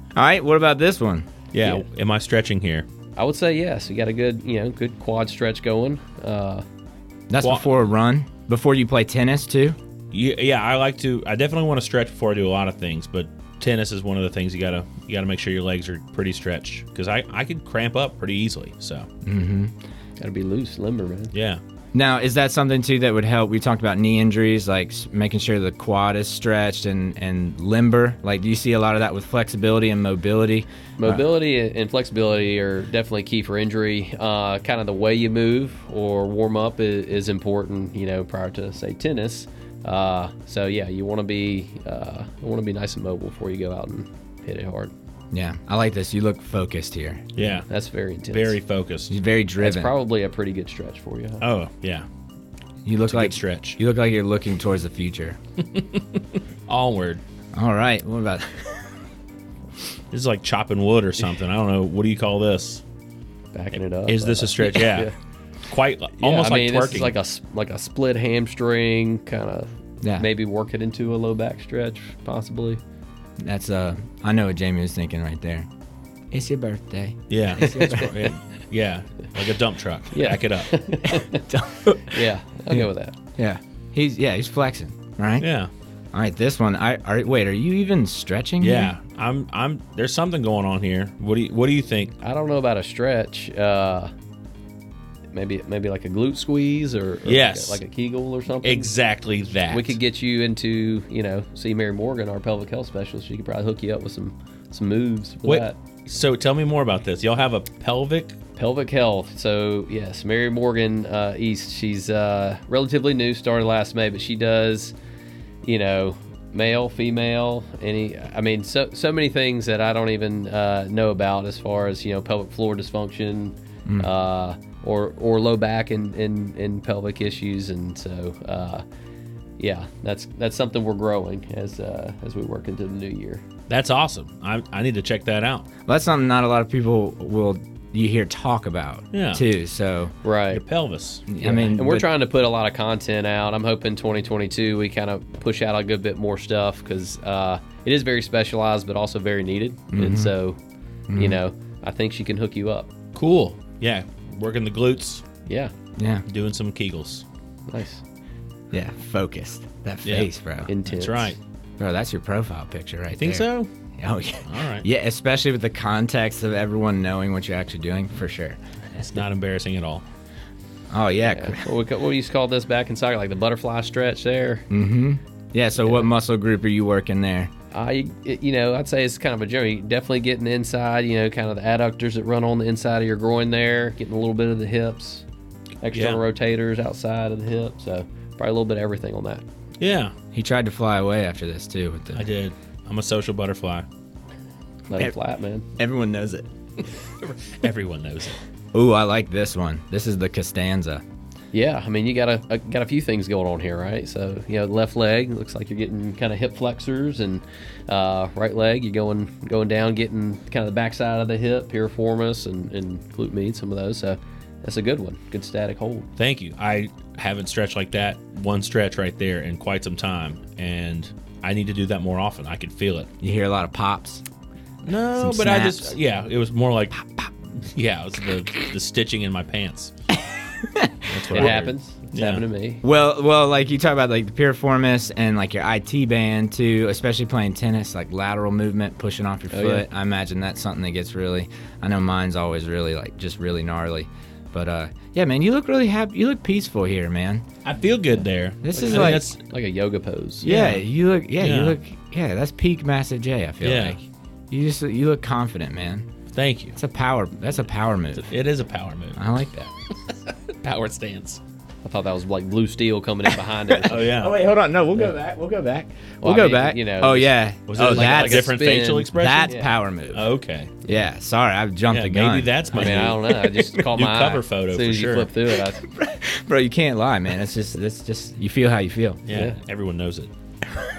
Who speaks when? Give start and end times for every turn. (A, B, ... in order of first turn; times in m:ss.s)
0:00.2-0:01.3 A
0:01.5-0:02.9 B
0:03.2-0:06.6 C
0:07.3-0:09.8 A
0:07.4-0:07.7 B
0:10.1-0:19.1 B
0:19.2-0:19.7 A
0:20.2-0:21.3 C
0:21.3-0:21.6 B
0:21.9-0:31.2 A
0:31.0-0:44.9 C
0:45.3-0:47.2 A
0:47.4-0:47.6 B
0:47.6-0:48.6 C
0:48.3-0:49.1 B
0:49.1-0:49.9 A
0:49.6-0:51.4 C
0:51.4-0:52.1 B
0:52.8-0:55.4 A
0:53.1-0:53.8 B
0:55.7-0:57.2 B
0:57.5-0:58.9 A
1:00.1-1:02.8 B
1:03.5-1:05.1 C
1:04.1-1:05.1 B
1:05.7-1:07.1 B
1:06.2-1:12.8 C
1:13.4-1:15.7 A
1:16.3-1:18.2 A
1:17.3-1:20.8 B
1:17.6-1:18.1 C
1:20.1-1:21.5 C
1:21.1-1:25.5 A
1:22.1-1:23.2 C
1:25.4-1:25.7 B
1:26.1-1:28.9 A
1:28.6-1:32.1 B
1:32.2-1:34.1 C
1:35.3-1:38.9 C
1:37.2-1:37.8 B
1:38.6-1:40.0 B
1:39.7-1:45.8 C
1:45.4-1:48.4 B
1:48.6-1:54.9 C
1:55.6-2:08.8 C
2:03.9-2:04.1 A
2:09.6-2:13.4 C
2:13.7-2:15.7 B
2:15.9-2:20.1 A
2:19.1-2:19.4 B
2:20.2-2:20.6 C
2:20.5-2:21.3 B
2:21.3-2:22.0 A
2:21.4-2:30.6 C
2:29.9-2:30.3 A
2:31.1-2:31.4 A
2:31.1-2:32.9 C
2:33.2-2:35.2 B
2:35.5-2:35.7 C
2:36.0-2:36.2 A
2:36.3-2:37.2 B
2:37.7-2:38.0 C
2:38.7-2:40.7 A
2:40.0-2:40.3 B
2:40.7-2:41.3 C
2:40.9-2:41.4 B
2:41.8-2:48.6 A
2:43.2-2:43.7 B
2:44.4-2:44.8 B
2:49.0-2:50.0 B
2:50.9-2:51.7 A
2:51.3-2:54.7 C
2:54.7-2:57.5 A
2:55.8-2:56.1 C
2:57.7-3:05.2 C
3:05.8-3:09.4 C
3:05.9-3:06.2 B
3:09.8-3:10.1 B
3:10.3-3:12.2 A
3:12.2-3:13.9 B
3:14.9-3:15.7 C
3:15.8-3:16.5 A
3:17.2-3:18.4 B
3:18.7-3:21.0 A
3:21.5-3:36.1 C
3:36.2-3:43.1 B
3:43.2-3:44.2 A
3:44.8-3:47.0 B
3:45.1-3:45.9 A
3:47.6-3:49.9 B
3:50.6-3:51.7 A
3:51.1-3:52.4 B
3:51.3-3:52.8 C
3:52.8-4:07.5 A
3:59.5-3:59.8 C
4:07.6-4:09.4 B
4:08.6-4:09.2 A
4:08.7-4:10.5 C
4:10.4-4:16.1 A
4:10.4-4:10.8 B
4:11.4-4:11.8 B
4:13.6-4:14.0 B
4:16.3-4:16.8 B
4:16.8-4:18.3 A
4:18.3-4:19.2 B
4:19.2-4:19.7 A
4:20.3-4:21.4 B
4:21.8-4:24.2 C
4:23.7-4:28.6 A
4:23.9-4:24.4 B
4:26.2-4:29.7 C
4:27.7-4:29.5 B
4:29.1-4:30.3 A
4:30.1-4:30.7 B
4:30.9-4:33.6 A
4:31.9-4:33.3 B
4:32.7-4:35.9 C
4:33.8-4:35.3 B
4:35.8-4:39.2 A
4:39.3-4:40.3 B